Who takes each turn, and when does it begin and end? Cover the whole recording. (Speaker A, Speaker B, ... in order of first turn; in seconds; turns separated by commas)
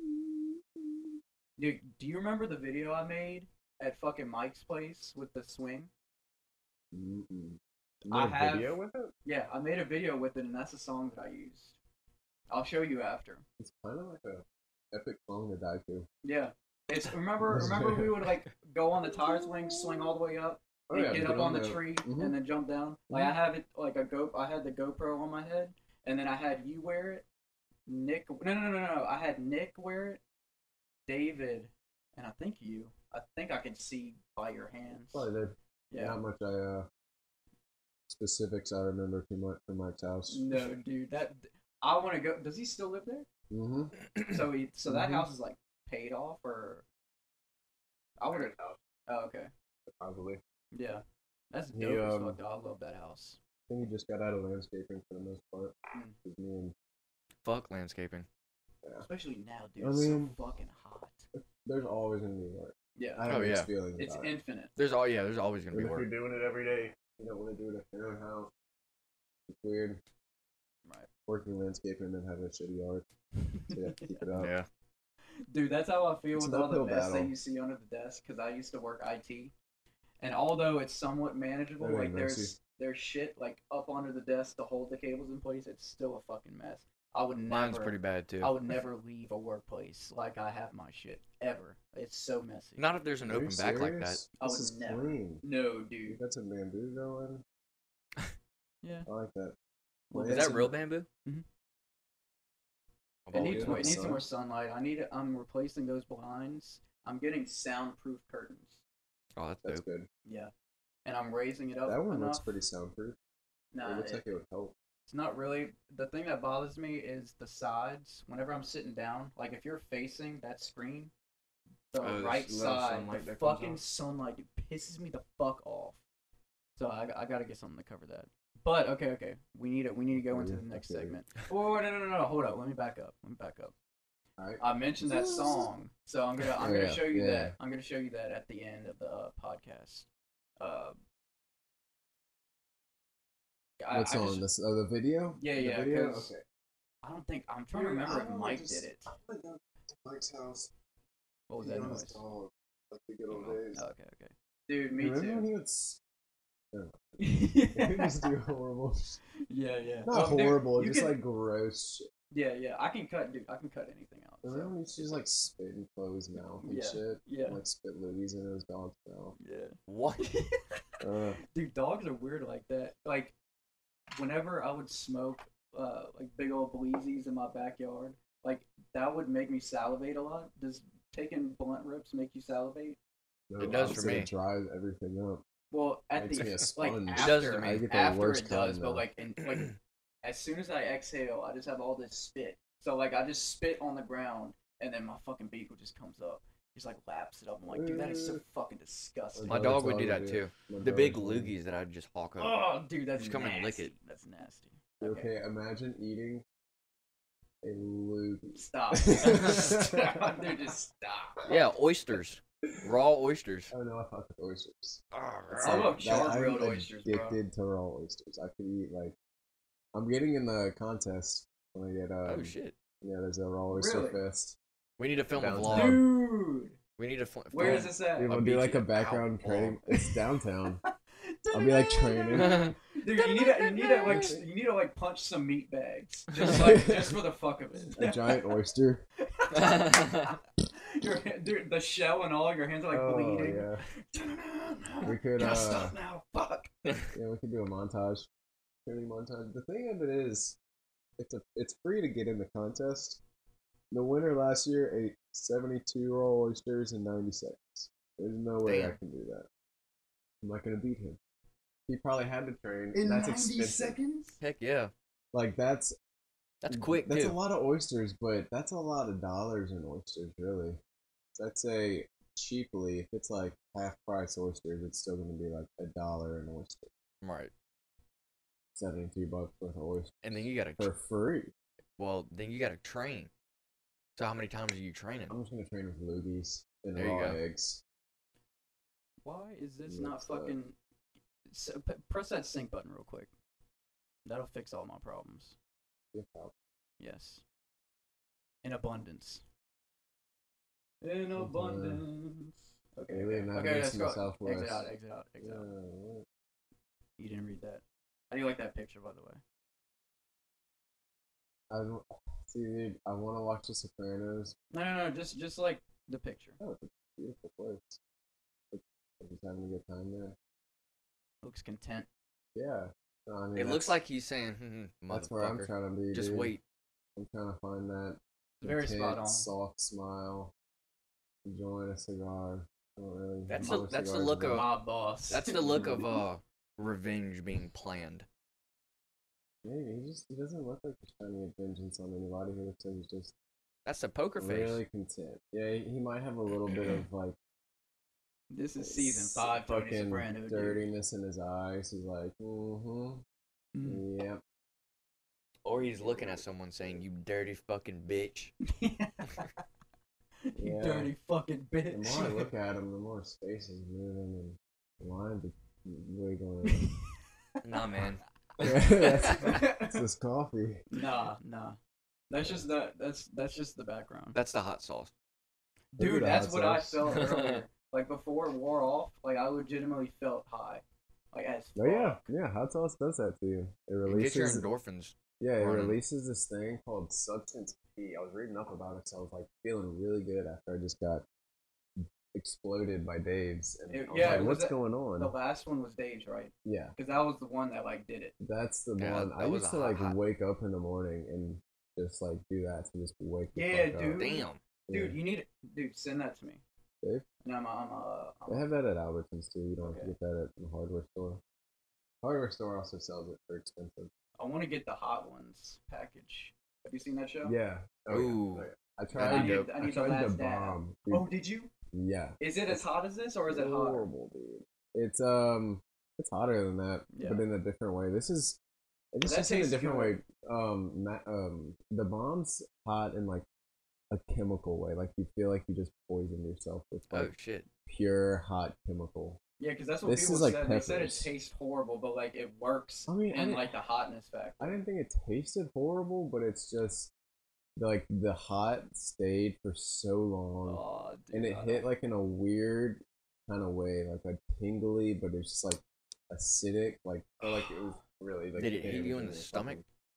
Speaker A: 1.6-5.9, Speaker B: 6.9-9.1, Speaker A: 8.1-11.8, Speaker A: 12.5-13.4, Speaker B: 13.6-16.1, Speaker A: 16.2-27.2, Speaker B: 17.5-18.3, Speaker B: 19.1-19.8, Speaker B: 20.9-22.4, Speaker A: 27.9-30.2, Speaker A: 31.1-35.3, Speaker B: 35.1-36.9, Speaker A: 35.9-36.2, Speaker B: 38.1-40.6, Speaker A: 40.3-43.2, Speaker B: 43.5-44.0, Speaker A: 44.2-46.8, Speaker B: 44.9-45.3, Speaker A: 48.2-48.5, Speaker B: 48.3-48.8, Speaker A: 49.1-49.5, Speaker B: 49.9-50.4, Speaker A: 50.7-53.4, Speaker B: 51.7-52.4, Speaker B: 53.7-56.7, Speaker C: 57.4-58.3, Speaker A: 59.0-61.3, Speaker B: 59.8-60.4, Speaker B: 61.3-64.3, Speaker A: 63.0-63.2, Speaker C: 63.3-63.7, Speaker A: 64.0-64.7, Speaker C: 64.8-66.1, Speaker B: 65.7-68.5, Speaker B: 69.5-70.0, Speaker B: 71.2-73.0, Speaker A: 73.6-74.2, Speaker B: 73.6-74.5, Speaker C: 74.3-74.7, Speaker A: 75.5-79.5, Speaker B: 76.3-77.3, Speaker A: 80.2-92.9, Speaker B: 81.8-82.5, Speaker C: 87.5-88.5, Speaker C: 92.8-94.2, Speaker B: 93.3-95.4, Speaker A: 94.4-96.2, Speaker B: 96.1-97.4, Speaker A: 98.8-99.1, Speaker B: 99.1-99.5, Speaker B: 100.1-100.7, Speaker A: 100.1-100.5, Speaker C: 100.2-101.1, Speaker C: 103.2-104.2, Speaker A: 103.3-108.8, Speaker B: 103.3-104.2, Speaker C: 109.3-109.8, Speaker B: 109.6-110.1, Speaker A: 110.2-110.5, Speaker A: 111.0-112.5, Speaker B: 111.8-113.2, Speaker A: 113.7-114.2, Speaker B: 113.8-114.7, Speaker A: 115.1-121.1, Speaker A: 121.9-126.0, Speaker C: 122.0-123.8, Speaker A: 126.8-133.7, Speaker B: 130.1-131.2, Speaker B: 134.4-135.7, Speaker A: 134.6-140.1, Speaker B: 136.6-137.5, Speaker A: 140.6-141.0, Speaker A: 143.8-144.4, Speaker B: 143.9-146.4, Speaker A: 145.4-146.3, Speaker A: 147.0-149.1, Speaker B: 147.7-150.7, Speaker A: 151.5-152.2, Speaker B: 151.6-153.8, Speaker A: 153.3-155.4, Speaker B: 155.0-156.0, Speaker B: 156.7-157.2, Speaker A: 157.2-158.3, Speaker B: 157.7-159.2, Speaker A: 159.4-161.1, Speaker B: 160.1-162.1, Speaker A: 162.3-165.2, Speaker B: 164.4-169.3, Speaker A: 166.6-167.6, Speaker A: 169.4-170.8, Speaker C: 169.9-170.2, Speaker B: 171.0-171.4, Speaker A: 171.5-173.3, Speaker A: 174.2-183.0, Speaker B: 183.5-185.4, Speaker C: 183.6-184.3, Speaker A: 185.7-199.6, Speaker B: 186.2-189.0, Speaker C: 187.1-187.8, Speaker B: 197.7-198.4, Speaker B: 199.3-201.5, Speaker C: 199.5-203.9, Speaker A: 202.4-205.3, Speaker B: 205.0-206.4, Speaker B: 207.6-210.5, Speaker A: 208.5-211.5, Speaker C: 209.3-209.7, Speaker C: 211.4-213.7, Speaker B: 213.7-215.0, Speaker C: 215.1-216.3, Speaker A: 215.5-217.4, Speaker B: 215.6-219.2, Speaker B: 219.9-224.6, Speaker C: 222.2-222.8, Speaker A: 223.7-224.2, Speaker C: 225.0-226.0, Speaker B: 225.3-226.1, Speaker A: 225.6-226.8, Speaker C: 227.0-229.8, Speaker A: 227.5-228.3, Speaker B: 227.6-230.8, Speaker A: 231.2-238.6, Speaker B: 231.5-232.7, Speaker C: 232.3-232.8, Speaker B: 233.8-234.4, Speaker C: 233.8-234.3, Speaker B: 236.4-237.2, Speaker B: 237.9-239.0, Speaker A: 239.2-246.7, Speaker C: 239.5-240.3, Speaker B: 242.9-243.8, Speaker B: 245.0-246.0, Speaker C: 246.8-247.1, Speaker B: 247.1-248.3, Speaker B: 248.8-250.6, Speaker B: 251.2-253.2, Speaker B: 253.9-259.5, Speaker C: 258.6-259.0, Speaker B: 260.4-261.2, Speaker B: 261.9-264.0, Speaker A: 262.9-264.4, Speaker C: 264.4-264.9, Speaker B: 265.3-265.9, Speaker C: 266.6-267.4, Speaker B: 266.7-270.8, Speaker B: 271.4-276.9, Speaker C: 277.2-277.5, Speaker B: 278.7-281.5, Speaker C: 280.2-280.9, Speaker C: 282.0-283.3, Speaker C: 284.1-285.3, Speaker B: 285.3-287.8, Speaker C: 286.9-287.4, Speaker A: 289.2-290.8, Speaker B: 289.9-290.5, Speaker A: 291.5-293.3, Speaker A: 294.2-295.6, Speaker B: 296.1-296.5, Speaker A: 297.0-297.4, Speaker A: 298.6-299.4, Speaker A: 301.0-305.7, Speaker B: 301.4-302.0, Speaker B: 303.1-304.9, Speaker B: 305.4-306.2, Speaker A: 307.2-309.4, Speaker B: 311.7-314.6, Speaker A: 314.7-316.6, Speaker B: 316.6-318.0, Speaker B: 318.7-320.4, Speaker A: 321.4-322.1, Speaker B: 322.5-324.0, Speaker C: 323.5-326.6, Speaker B: 325.1-326.5, Speaker B: 327.1-330.5, Speaker A: 328.6-329.5, Speaker B: 331.4-334.7, Speaker C: 333.5-334.7, Speaker A: 333.6-333.9, Speaker A: 334.5-335.9, Speaker C: 335.3-338.3, Speaker B: 335.6-336.1, Speaker B: 339.6-343.3, Speaker C: 343.8-344.8, Speaker B: 344.4-347.4, Speaker C: 346.6-347.0, Speaker A: 348.5-350.8, Speaker B: 348.8-353.2, Speaker A: 353.7-354.0, Speaker B: 353.8-354.4, Speaker C: 355.6-358.5, Speaker B: 355.7-357.0, Speaker A: 358.6-359.4, Speaker A: 360.4-362.5, Speaker B: 360.6-361.1, Speaker B: 361.9-366.9, Speaker C: 367.6-369.5, Speaker B: 368.6-370.9, Speaker A: 369.3-370.0, Speaker A: 370.9-371.8, Speaker A: 372.3-374.4, Speaker C: 374.3-375.1, Speaker A: 375.9-382.3, Speaker B: 376.0-377.1, Speaker C: 377.0-377.6, Speaker B: 381.8-384.7, Speaker C: 384.0-386.0, Speaker B: 385.4-391.2, Speaker B: 392.0-395.3, Speaker A: 393.9-398.3, Speaker C: 394.1-394.5, Speaker B: 396.6-396.9, Speaker B: 398.4-404.3, Speaker C: 399.0-400.2, Speaker A: 403.5-406.6, Speaker C: 404.1-404.6, Speaker B: 404.9-405.2, Speaker A: 407.4-408.6, Speaker B: 408.5-411.4, Speaker A: 409.8-410.1, Speaker B: 412.2-414.1, Speaker A: 414.4-417.5, Speaker B: 417.4-421.3, Speaker C: 418.1-419.7, Speaker A: 419.2-421.7, Speaker B: 421.9-422.8, Speaker A: 422.4-424.1, Speaker B: 423.5-428.6, Speaker A: 427.1-427.4, Speaker B: 429.1-433.4, Speaker A: 429.2-430.2, Speaker B: 434.1-437.3, Speaker C: 437.1-437.7, Speaker B: 437.9-439.4, Speaker A: 439.6-444.7, Speaker B: 440.0-441.3, Speaker B: 443.1-443.8, Speaker B: 444.6-447.1, Speaker B: 447.8-450.8, Speaker A: 450.6-451.9, Speaker B: 451.3-459.8, Speaker C: 458.5-459.8